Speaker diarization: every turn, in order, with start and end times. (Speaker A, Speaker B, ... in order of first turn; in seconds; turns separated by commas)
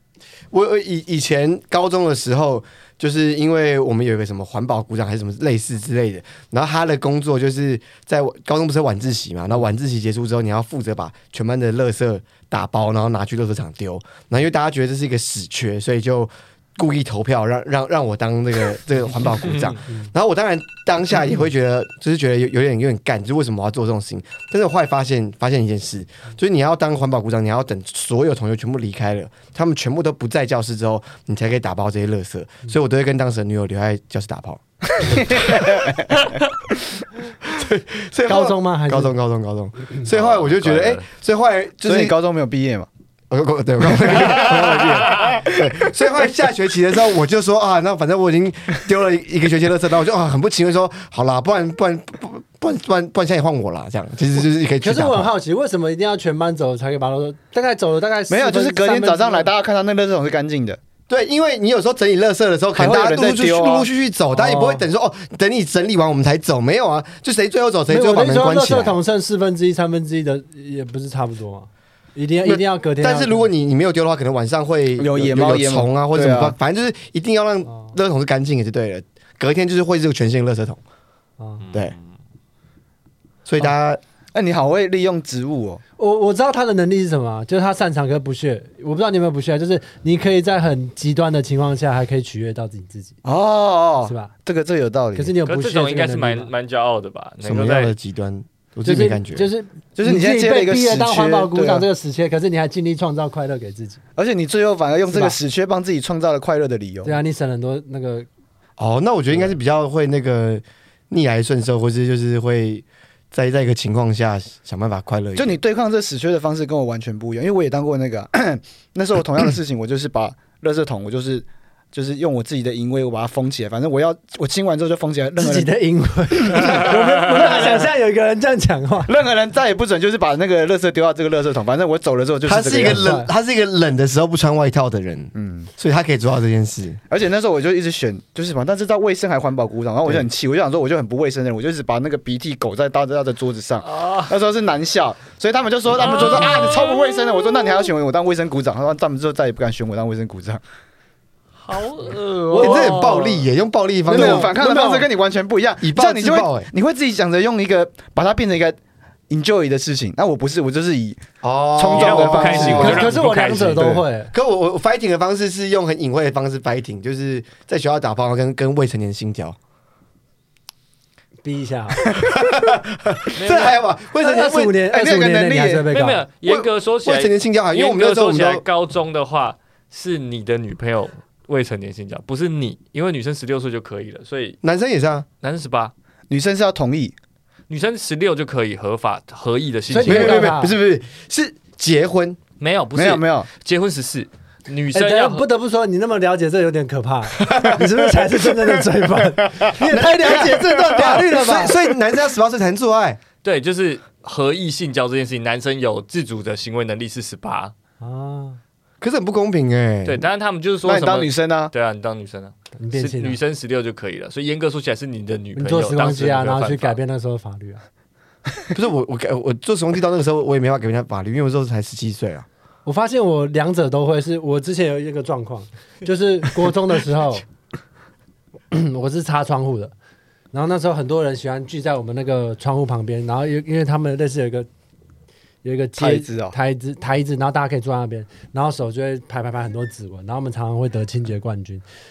Speaker A: 0.5-35.6, Speaker B: 35.0-36.3, Speaker A: 37.4-42.1, Speaker C: 38.3-39.1, Speaker D: 40.0-41.0, Speaker B: 41.8-42.9, Speaker A: 43.3-55.3, Speaker B: 44.2-45.6, Speaker D: 44.4-45.4, Speaker C: 54.8-59.5, Speaker B: 58.3-60.8, Speaker A: 61.1-69.0, Speaker B: 62.8-63.9, Speaker C: 64.3-64.8, Speaker C: 67.9-73.5, Speaker A: 72.4-80.8, Speaker B: 75.0-76.5, Speaker D: 81.6-82.0, Speaker A: 83.5-84.0, Speaker B: 84.3-85.8, Speaker C: 86.0-93.2, Speaker B: 93.2-95.3, Speaker C: 94.0-94.3, Speaker C: 95.2-96.5, Speaker D: 95.5-97.9, Speaker A: 97.4-99.5, Speaker C: 98.8-104.0, Speaker B: 100.0-101.9, Speaker B: 104.2-107.2, Speaker C: 105.1-105.4, Speaker C: 107.0-108.3, Speaker A: 108.8-115.6, Speaker B: 115.3-125.7, Speaker C: 125.4-129.1, Speaker B: 126.5-127.9, Speaker B: 129.1-133.1, Speaker A: 132.4-137.0, Speaker C: 132.8-133.3, Speaker B: 135.3-135.7, Speaker B: 137.1-150.6, Speaker D: 143.8-144.3, Speaker D: 146.0-147.4, Speaker D: 151.6-153.5, Speaker C: 152.5-152.9, Speaker A: 152.6-155.0, Speaker C: 154.1-155.0, Speaker B: 154.1-158.8, Speaker A: 155.8-156.7, Speaker B: 159.3-161.2, Speaker A: 161.4-163.1, Speaker B: 161.7-163.1, Speaker D: 161.9-164.0, Speaker C: 162.7-164.3, Speaker B: 163.7-164.0, Speaker A: 164.3-169.6, Speaker C: 171.4-172.0, Speaker A: 172.3-174.8, Speaker D: 173.3-173.8, Speaker C: 174.2-176.2, Speaker B: 174.8-175.9, Speaker D: 175.9-184.6, Speaker A: 176.4-178.6, Speaker A: 184.6-185.2, Speaker D: 185.4-185.9, Speaker B: 186.3-187.1, Speaker D: 187.7-190.5, Speaker C: 189.9-190.7, Speaker A: 190.0-192.4, Speaker D: 192.6-195.5, Speaker B: 192.9-193.5, Speaker C: 194.9-201.8, Speaker A: 197.4-197.9, Speaker A: 199.8-203.2, Speaker D: 203.4-207.7, Speaker C: 208.0-208.6, Speaker A: 209.0-210.2, Speaker D: 210.0-217.0, Speaker B: 210.8-211.7, Speaker C: 212.8-213.4, Speaker C: 215.6-217.8, Speaker A: 218.7-222.4, Speaker C: 222.8-227.4, Speaker C: 228.7-229.9, Speaker C: 230.5-234.7, Speaker C: 235.6-241.8, Speaker B: 236.0-236.5